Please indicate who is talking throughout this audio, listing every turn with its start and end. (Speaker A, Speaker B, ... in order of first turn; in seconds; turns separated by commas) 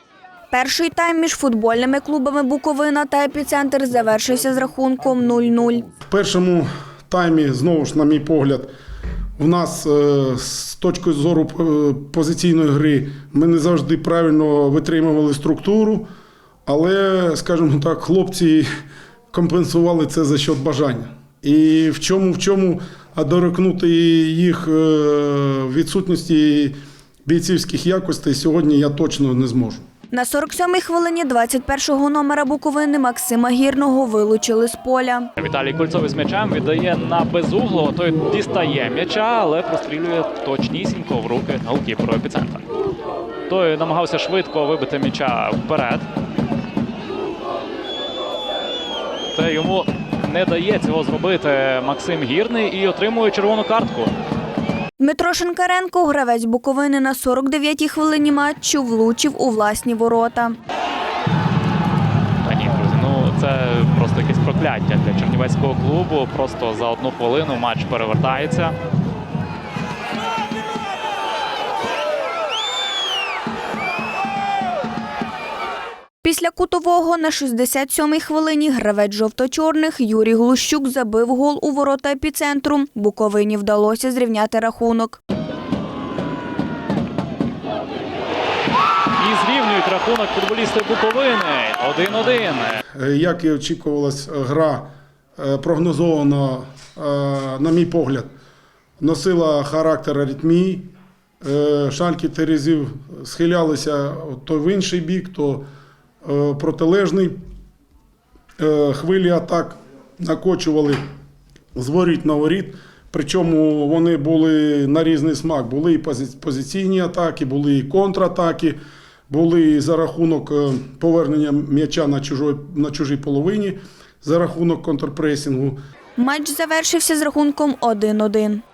Speaker A: 0.5-6.0, Speaker B: 6.1-8.7, Speaker B: 9.4-16.1, Speaker B: 16.7-18.6, Speaker B: 19.3-26.7, Speaker B: 27.3-29.8, Speaker A: 30.1-35.3, Speaker C: 35.4-42.7, Speaker C: 43.5-46.1, Speaker C: 49.3-54.1, Speaker A: 55.0-60.6, Speaker C: 62.4-68.8, Speaker A: 76.2-85.2, Speaker C: 89.2-92.8, Speaker B: 93.0-94.8, Speaker B: 95.4-98.3, Speaker B: 99.0-100.9, Speaker B: 101.4-105.7, Speaker B: 106.2-107.3, Speaker B: 108.6-111.0, Speaker B: 111.8-118.7, Speaker B: 119.3-125.8, Speaker A: 126.2-128.6